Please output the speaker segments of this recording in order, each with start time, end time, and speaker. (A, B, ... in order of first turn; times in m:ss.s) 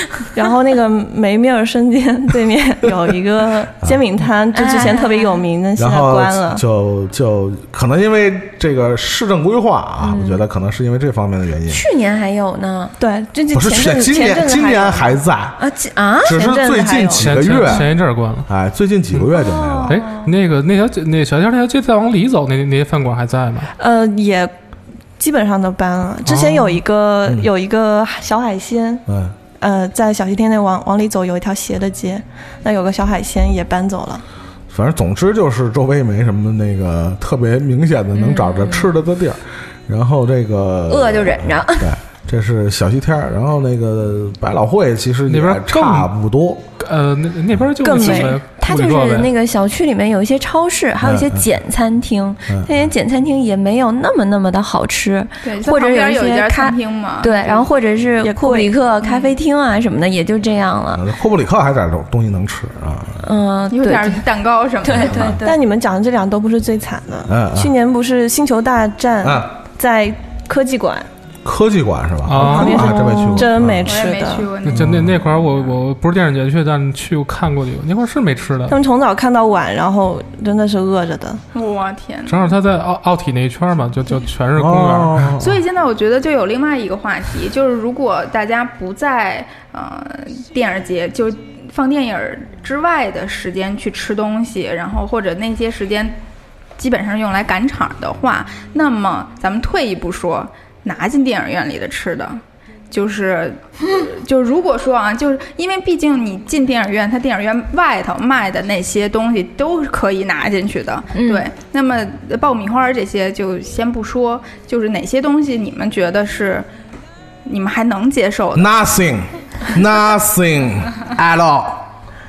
0:00.3-0:06.6 A
0:04.5-0:05.4 B
0:05.8-0:11.8 C
0:10.0-0:10.4 B
0:11.7-0:13.0 B
0:13.0-0:15.2 A
0:13.5-0:15.6 C
0:15.6-0:16.5 B
0:16.2-0:17.9 C
0:16.3-0:17.4 A
0:17.2-0:18.5 D
0:18.5-0:20.0 C
0:19.4-0:20.3 B
0:19.9-0:23.7 D
0:23.8-0:24.5 A
0:25.2-0:29.0 A
0:26.3-0:26.7 D
0:29.1-0:29.4 C
0:29.6-0:34.2 A
0:34.7-0:46.6 C
0:38.2-0:38.9 B
0:40.9-0:41.9 B
0:45.3-0:46.1 D
0:46.8-0:49.3 D
0:47.8-0:48.4 A
0:48.0-1:01.0 B
0:51.0-0:51.5 C
0:52.5-0:52.8 C
0:55.4-0:57.7 E
0:58.2-0:58.7 A
1:01.0-1:03.2 C
1:03.2-1:04.2 B
1:03.7-1:05.3 E
1:04.8-1:05.6 B
1:05.1-1:05.4 C
1:05.4-1:11.1 A
1:07.3-1:07.7 C
1:09.2-1:09.5 C
1:11.4-1:14.0 C
1:12.2-1:13.0 D
1:12.4-1:14.5 A
1:13.8-1:15.5 E
1:14.6-1:18.8 D
1:14.8-1:15.2 C
1:18.7-1:21.4 A
1:21.5-1:22.5 E
1:22.3-1:25.4 D
1:24.6-1:25.6 C
1:25.4-1:36.2 E
1:36.8-1:42.4 E
1:42.9-1:56.7 E
1:51.1-1:51.5 B
1:57.5-1:58.7 E
1:58.6-2:01.9 C